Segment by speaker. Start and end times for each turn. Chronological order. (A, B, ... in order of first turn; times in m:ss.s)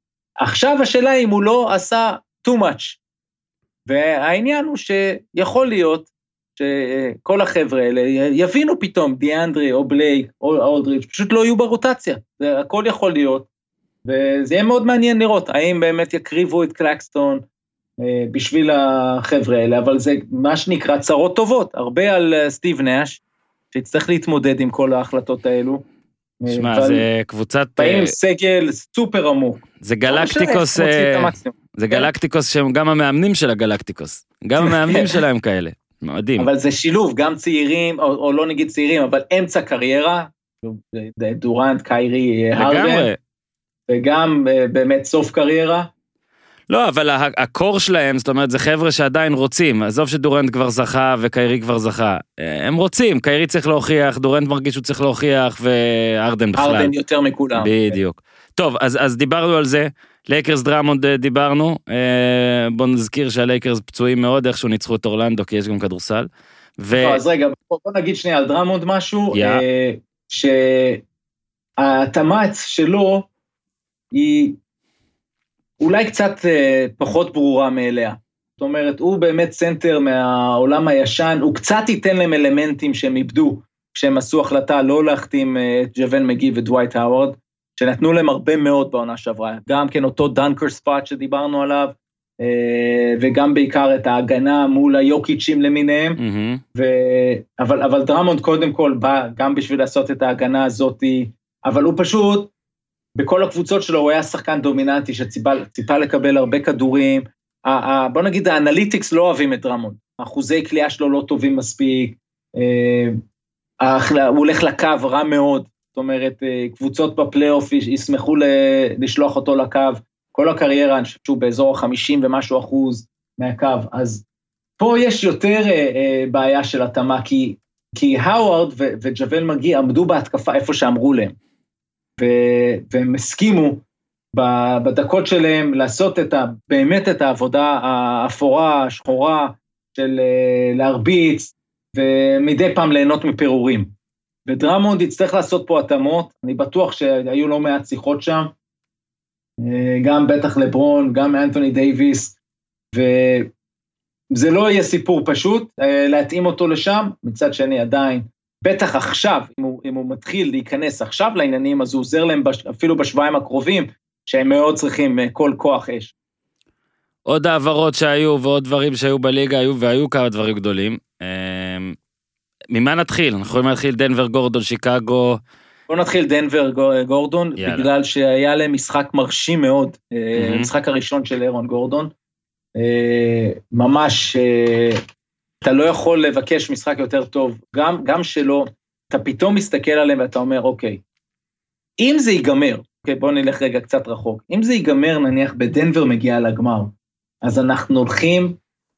0:00.4-0:03.0 A
0:03.9-0:13.5 A
0:14.0-0:17.4 A
0:18.0-0:23.2 A
0:23.7-0:25.8 A
0:26.4-0:27.1 A
0:26.5-0:28.2 B
0:27.8-0:32.1 A
0:29.8-0:36.5 B
0:34.6-0:35.2 A
0:36.4-0:43.1 A
0:42.6-0:43.2 B
0:43.9-0:45.9 A
0:46.7-0:56.9 B
0:56.6-0:58.0 A
0:57.5-1:06.3 B
1:06.8-1:07.2 B
1:06.9-1:11.0 A
1:09.3-1:09.6 B
1:11.8-1:13.3 A
1:14.1-1:14.6 A
1:15.8-1:36.2 A
1:36.2-1:36.6 B
1:36.8-1:42.5 A
1:43.2-1:53.2 A
1:53.8-2:04.2 A
2:04.8-2:11.4 A
2:12.2-2:13.8 A
2:14.3-2:23.9 A
2:24.5-2:28.5 A
2:29.6-2:32.4 A
2:32.9-2:33.5 A
2:34.3-2:46.1 A
2:47.3-2:52.0 B
2:52.7-2:55.4 B
2:55.9-3:02.1 A
2:57.6-2:57.9 B
3:00.4-3:00.7 B
3:02.8-3:05.0 A
3:05.6-3:11.0 A
3:12.0-3:18.6 A